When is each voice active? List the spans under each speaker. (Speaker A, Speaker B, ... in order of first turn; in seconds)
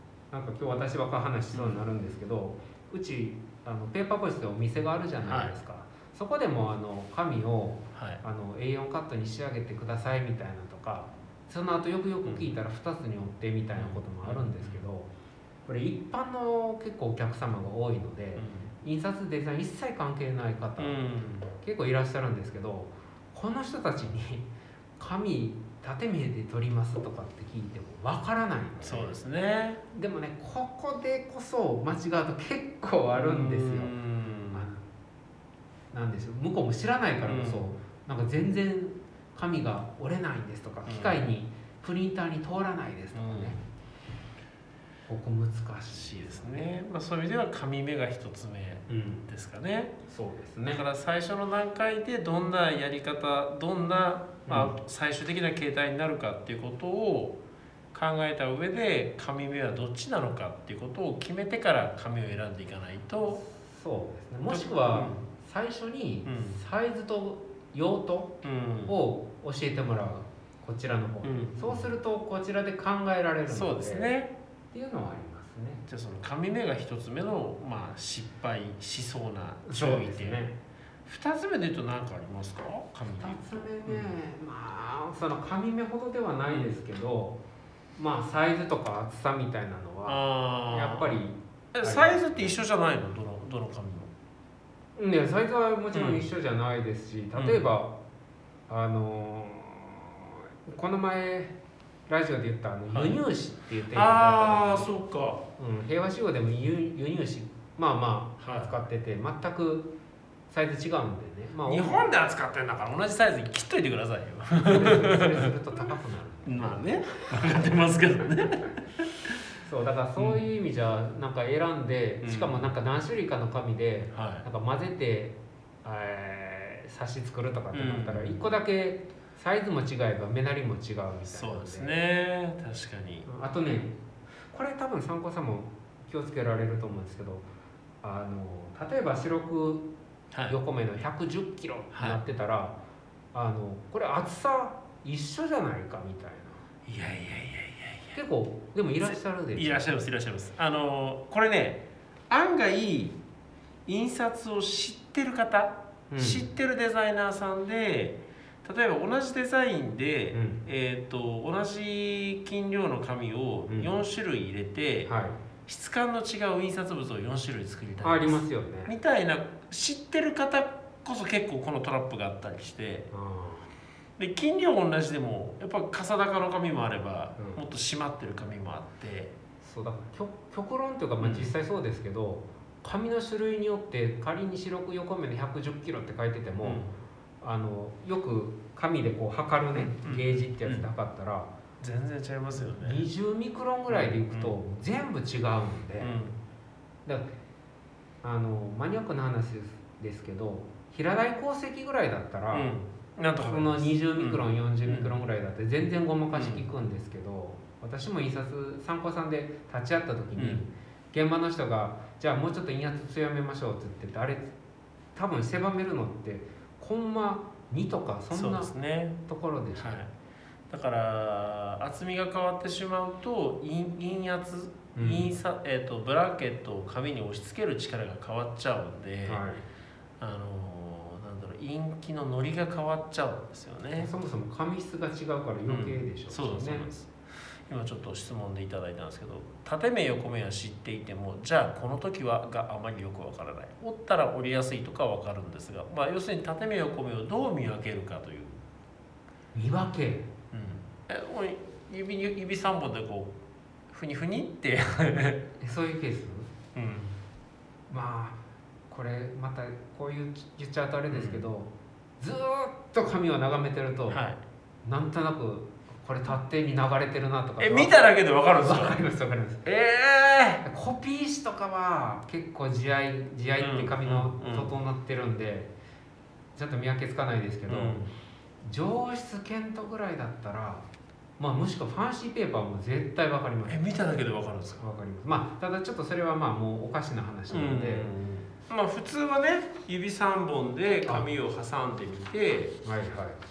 Speaker A: 0.3-15.1, 15.7-21.0, 21.6-29.1, 29.9-33.9, 34.5-34.8, 35.9-43.6, 45.1-46.6, 48.9-49.2, 50.1-50.8, 54.5-54.7, 63.3-74.1, 74.7-75.8, 79.7-80.6, 83.1-87.4, 88.0-92.6, 95.0-97.9, 98.7-101.5, 102.1-104.9, 105.6-109.9, 110.5-112.0, 114.6-117.7, 119.7-131.9, 133.2-134.0, 134.5-137.5, 138.0-139.9, 140.5-142.8, 143.3-146.6, 148.1-149.9, 156.1-156.5, 160.3-160.6, 165.1-165.4, 168.0-168.9, 173.1-173.7, 177.4-177.6, 179.6-186.9, 187.4-191.5, 192.6-196.2, 198.2-202.7, 203.4-214.5, 215.2-218.7, 219.2-220.0, 224.9-225.3, 229.2-229.6, 234.0-236.9, 249.5-250.3, 255.6-256.5, 257.9-264.2, 264.9-267.9, 268.6-269.6, 270.6-275.7, 276.6-280.9, 281.4-283.8, 284.8-288.1, 292.8-293.4
Speaker B: 1.5-1.8, 5.2-5.5, 7.9-8.2, 13.8-14.8, 18.4-18.7, 20.8-21.5, 28.8-29.8, 33.2-34.7, 37.2-37.7, 40.9-41.2, 43.1-43.6, 45.9-49.9, 50.7-57.4, 57.9-63.4, 64.5-65.2, 66.2-66.6, 68.4-69.0, 71.2-71.9, 73.5-74.3, 75.9-80.4, 81.0-84.2, 86.5-86.8, 90.1-91.2, 91.7-94.1, 95.9-96.2, 97.3-97.7, 102.9-103.2, 103.9-105.4, 108.4-108.7, 111.7-115.5, 116.5-119.4, 122.2-122.7, 124.1-124.5, 127.7-128.4, 131.2-133.3, 141.9-142.2, 146.9-148.2, 149.0-153.2, 153.9-165.1, 165.7-173.1, 174.2-179.3, 181.2-181.5, 186.6-186.9, 189.8-190.9, 191.8-193.1, 193.9-194.6, 196.0-196.4, 202.5-205.2, 206.3-206.7, 210.4-210.6, 218.3-219.2, 219.8-220.1, 220.7-229.4, 230.2-234.1, 235.7-237.1, 237.7-248.6, 250.5-253.3, 253.9-255.4, 256.8-257.2, 261.1-261.4, 264.1-264.4, 267.6-269.0, 269.6-270.6, 273.6-274.7, 277.7-278.1, 283.7-284.8, 287.5-292.8